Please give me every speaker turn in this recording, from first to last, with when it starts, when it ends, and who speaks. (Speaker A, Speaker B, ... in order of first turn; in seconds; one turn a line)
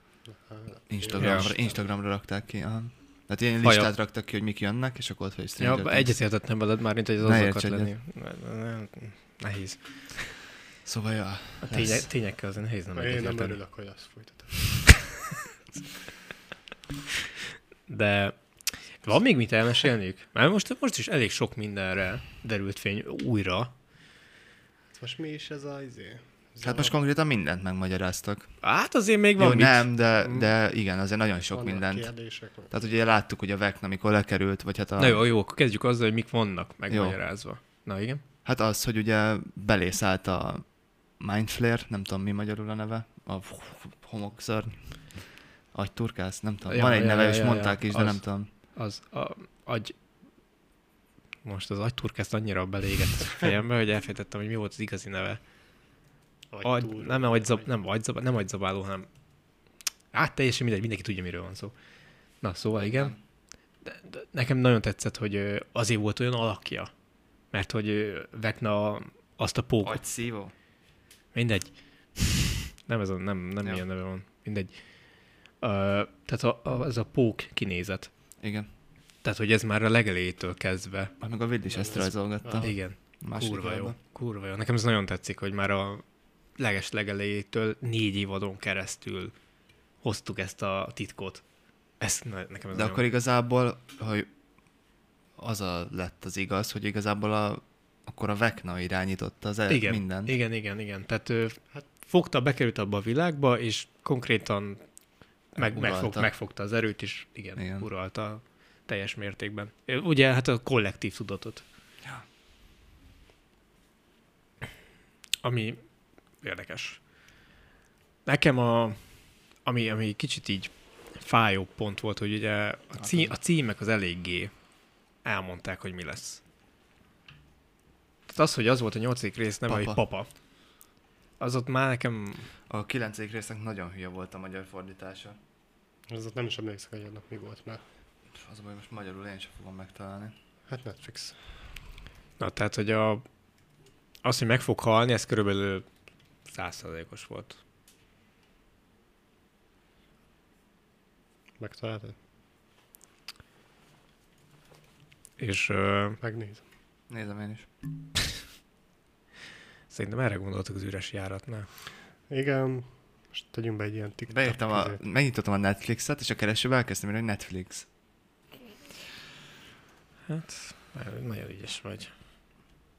Speaker A: 0.2-1.6
Speaker B: 0.9-6.2
Speaker C: 1.2-1.5
Speaker C: 3.6-3.9
Speaker C: 5.6-10.3
Speaker B: 7.2-7.9
Speaker B: 10.8-12.0
Speaker C: 11.6-13.6
Speaker A: 12.9-15.1
Speaker C: 17.9-23.7
Speaker A: 24.9-26.9
Speaker B: 26.6-28.5
Speaker C: 28.6-29.9
Speaker B: 29.4-32.1
Speaker A: 31.5-32.7
Speaker B: 32.7-35.2
Speaker C: 35.0-38.2
Speaker B: 36.9-37.2
Speaker B: 38.4-48.5
Speaker C: 46.7-49.9
Speaker C: 51.4-55.4
Speaker A: 56.5-57.7
Speaker C: 56.6-59.1
Speaker C: 60.1-61.7
Speaker C: 62.4-63.1
Speaker B: 62.8-63.2
Speaker C: 63.8-66.9
Speaker C: 67.5-70.0
Speaker B: 69.8-70.5
Speaker C: 71.3-78.1
Speaker B: 78.4-78.7
Speaker C: 79.2-81.1
Speaker B: 81.2-84.0
Speaker A: 81.8-82.7
Speaker C: 82.6-86.0
Speaker C: 86.6-89.3
Speaker C: 90.0-91.4
Speaker C: 92.0-93.0
Speaker B: 92.7-94.3
Speaker B: 95.4-100.3
Speaker C: 99.7-104.8
Speaker C: 105.5-111.6
Speaker B: 105.6-106.3
Speaker B: 107.6-107.9
Speaker C: 115.4-115.8
Speaker C: 116.4-117.0
Speaker C: 118.2-119.0
Speaker C: 119.6-124.5
Speaker B: 123.0-123.3
Speaker C: 125.2-126.4
Speaker C: 128.3-130.3
Speaker B: 129.7-130.0
Speaker C: 131.4-132.5
Speaker B: 132.7-135.4
Speaker A: 136.1-137.8
Speaker B: 138.4-140.3
Speaker A: 140.7-141.4
Speaker C: 142.4-143.2
Speaker C: 144.2-145.8
Speaker C: 146.5-147.6
Speaker A: 151.6-152.1
Speaker C: 155.4-156.2
Speaker A: 156.2-156.6
Speaker B: 157.1-157.7
Speaker C: 159.9-161.7
Speaker A: 162.3-165.0
Speaker B: 164.3-167.9
Speaker C: 170.3-172.1